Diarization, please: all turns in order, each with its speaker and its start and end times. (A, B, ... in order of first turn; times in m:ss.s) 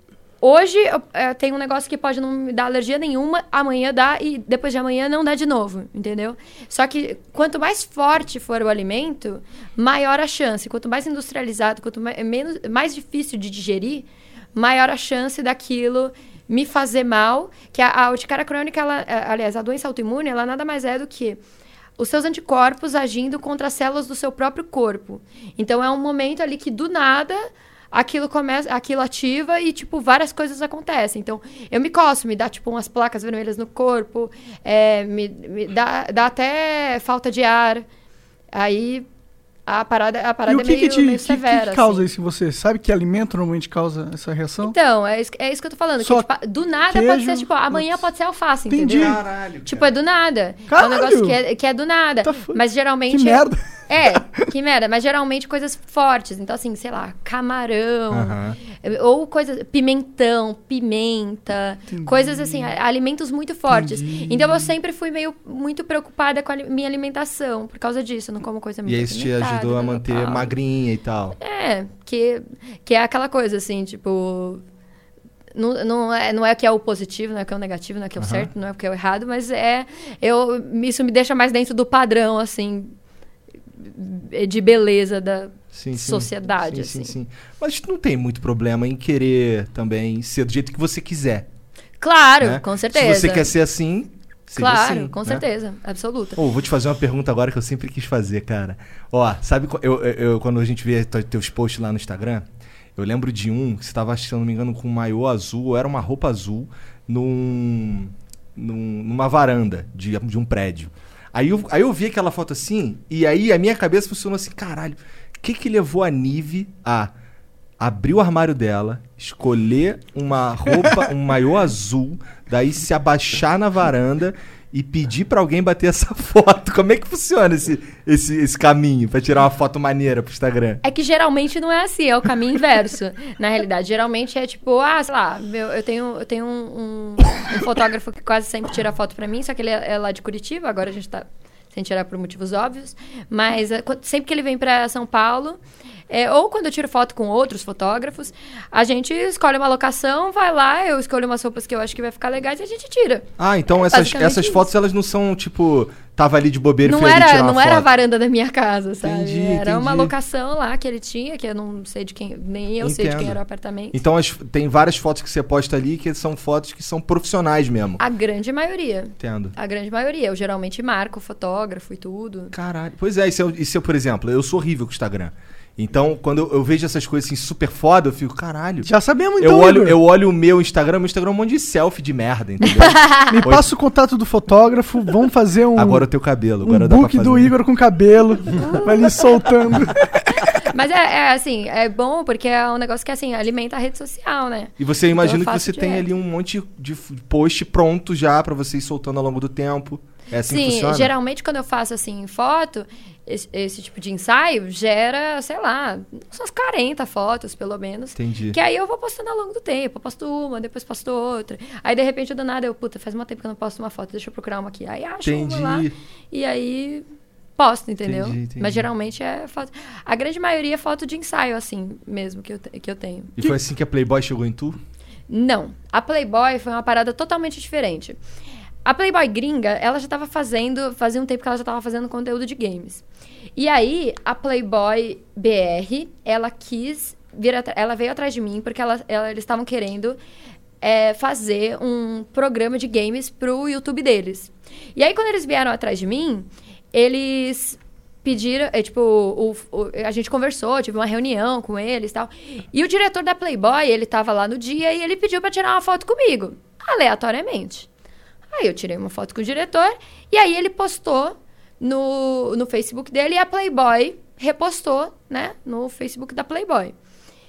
0:00.4-0:21.4 A
0:22.0-0:37.8 A
0:38.5-0:39.1 A
0:39.6-0:42.1 A
0:40.4-0:44.7 B
0:44.6-1:10.5 A
0:46.0-0:46.3 B
0:46.9-0:48.0 B
0:48.7-0:49.1 B
0:48.9-0:49.9 C
0:50.7-0:51.4 B
0:52.2-0:52.6 B
0:53.1-0:53.6 B
0:58.1-0:58.6 C
1:03.7-1:04.7 B
1:08.8-1:11.4 C
1:11.4-1:14.6 A
1:15.5-1:22.9 A
1:18.2-1:18.5 C
1:23.8-1:27.1 A
1:25.7-1:31.5 C
1:32.0-1:33.5 A
1:32.4-1:35.4 C
1:34.6-1:36.4 A
1:36.4-1:57.1 C
1:57.8-2:10.8 C
2:10.8-2:34.7 A
2:33.4-2:37.8 C
2:36.8-2:44.0 A
2:39.0-2:40.1 C
2:42.8-2:43.4 C
2:43.9-2:48.0 C
2:48.0-2:52.5 A
2:49.2-2:49.5 C
2:52.5-3:03.7 C
2:58.8-3:00.0 B
3:02.7-3:03.4 A
3:03.3-3:06.0 B
3:05.7-3:07.5 C
3:06.6-3:10.4 B
3:08.6-3:09.1 A
3:10.4-3:16.0 A
3:14.8-3:21.1 C
3:20.4-3:37.0 A
3:28.1-3:28.6 C
3:35.2-3:35.9 C
3:37.6-3:43.3 A
3:38.0-3:38.8 C
3:43.4-3:44.8 C
3:45.3-3:48.2 A
3:48.8-3:53.0 A
3:53.6-4:00.2 A
4:00.8-4:17.9 A
4:18.5-4:26.9 A